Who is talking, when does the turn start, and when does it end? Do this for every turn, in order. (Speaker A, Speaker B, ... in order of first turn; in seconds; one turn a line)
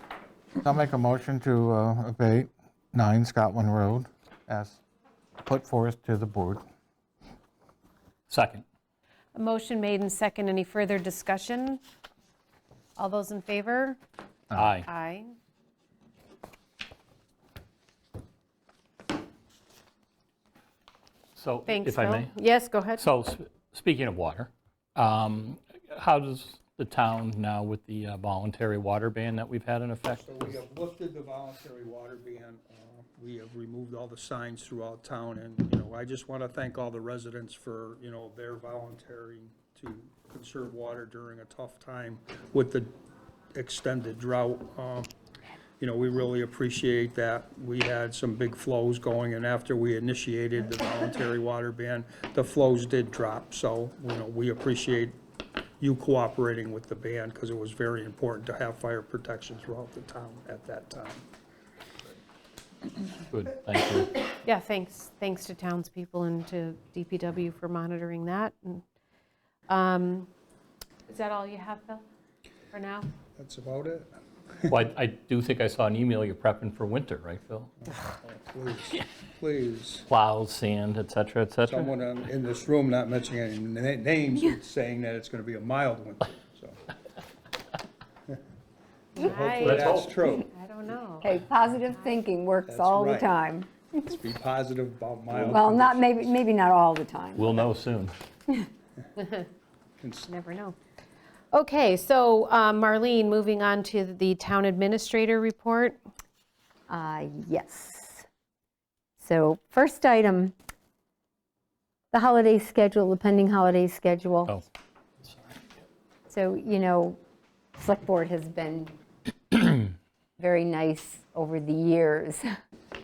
Speaker A: 0.6-4.8
Speaker A: 5.5-6.6
Speaker B: 8.3-8.6
Speaker C: 9.4-11.8
Speaker C: 13.0-14.0
Speaker B: 14.5-14.9
Speaker C: 14.8-15.3
Speaker B: 21.4-22.3
Speaker C: 21.7-23.1
Speaker B: 23.0-30.5
Speaker D: 30.1-42.9
Speaker D: 43.5-45.1
Speaker D: 45.8-55.2
Speaker D: 55.8-61.3
Speaker B: 63.3-64.1
Speaker C: 64.4-68.8
Speaker C: 69.7-70.3
Speaker C: 71.1-72.0
Speaker C: 72.7-73.1
Speaker D: 73.4-74.1
Speaker B: 74.7-77.7
Speaker D: 77.8-80.1
Speaker B: 80.1-81.9
Speaker D: 81.7-86.8
Speaker C: 89.2-91.3
Speaker D: 89.2-90.5
Speaker B: 89.6-90.2
Speaker E: 91.2-94.2
Speaker D: 92.7-93.4
Speaker D: 94.0-96.3
Speaker E: 95.3-97.6
Speaker B: 97.4-98.1
Speaker C: 99.2-99.5
Speaker D: 100.0-100.3
Speaker C: 100.3-100.8
Speaker C: 101.5-106.0
Speaker E: 106.9-108.3
Speaker E: 109.2-110.5
Speaker E: 112.1-114.6
Speaker B: 115.2-115.6
Speaker E: 116.3-117.2
Speaker E: 117.8-119.0
Speaker E: 119.5-122.5